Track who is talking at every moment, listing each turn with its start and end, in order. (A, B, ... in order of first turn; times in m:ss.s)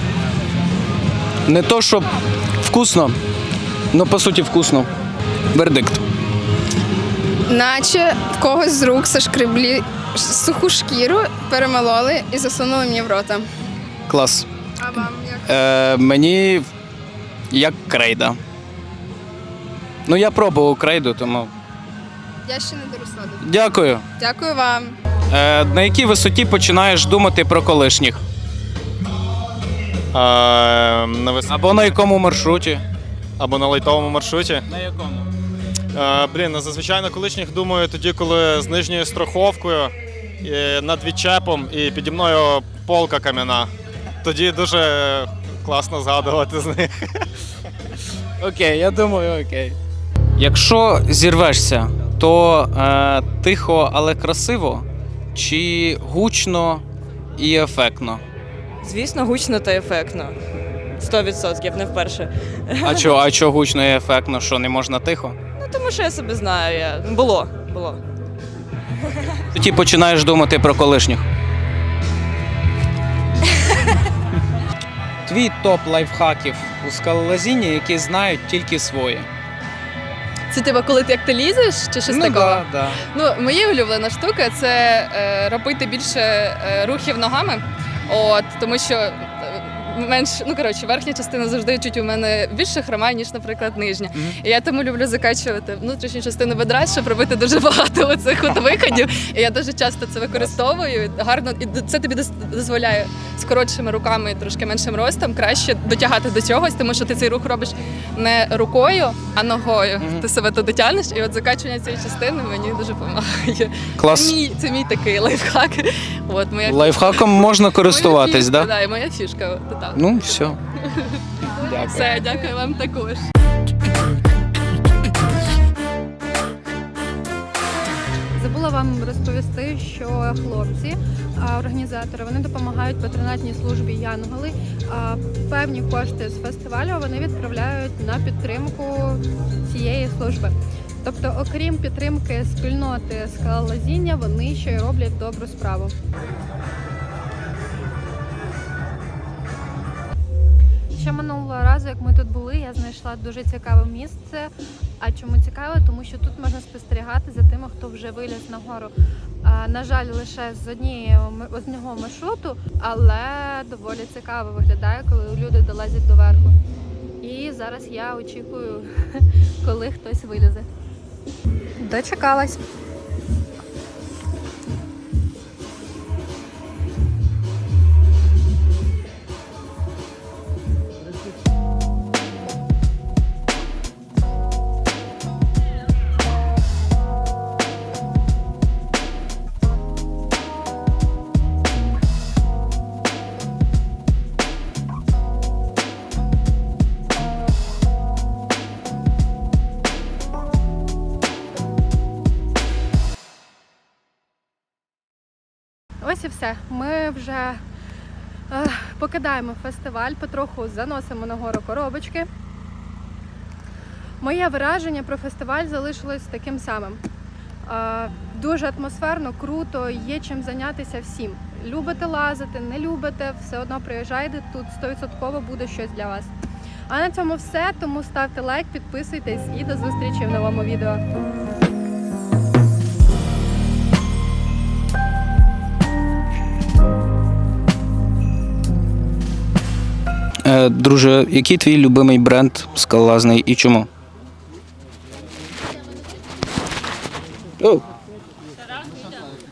0:01.4-0:03.2 A
0:03.9-0:04.9 A
0:05.5-0:06.0 A
0:07.4-0:13.5 B
0:14.1-0:14.5 A
0:14.8-0:15.5 B
0:15.4-0:16.7 A
0:17.5-0:18.4 A
0:20.1-0:21.5 A
0:22.4-0:23.4 B
0:23.4-0:24.0 A
0:24.2-0:25.0 B
0:25.3-0:28.2 A
0:30.1-0:31.9 C
0:31.5-0:32.8 A
0:33.4-0:34.6 C
0:34.7-0:35.2 A
0:35.9-0:43.7 C
0:44.2-0:47.2 C
0:48.4-0:49.8 A
0:50.4-0:56.8 A
0:57.4-0:58.2 A
0:58.8-1:00.4 D
1:01.0-1:03.1 D
1:02.8-1:05.4 A
1:05.5-1:08.0 D
1:09.5-1:11.2 A
1:15.2-1:19.3 A
1:20.5-2:03.3 E
1:22.1-1:23.0 A
1:50.0-1:50.2 A
1:54.0-1:54.4 A
1:56.6-1:58.7 A
1:59.9-2:00.6 A
2:01.5-2:02.5 F
2:01.6-2:02.2 A
2:08.3-2:25.9 F
2:30.9-2:38.9 F
2:39.4-2:46.6 F
2:47.2-2:50.7 F
2:51.8-2:52.6 F
3:26.0-3:27.6 F
3:28.5-3:32.3 F
3:34.2-3:37.0 F
3:37.6-3:46.3 F
3:46.9-3:51.0 F
4:00.4-4:03.9 A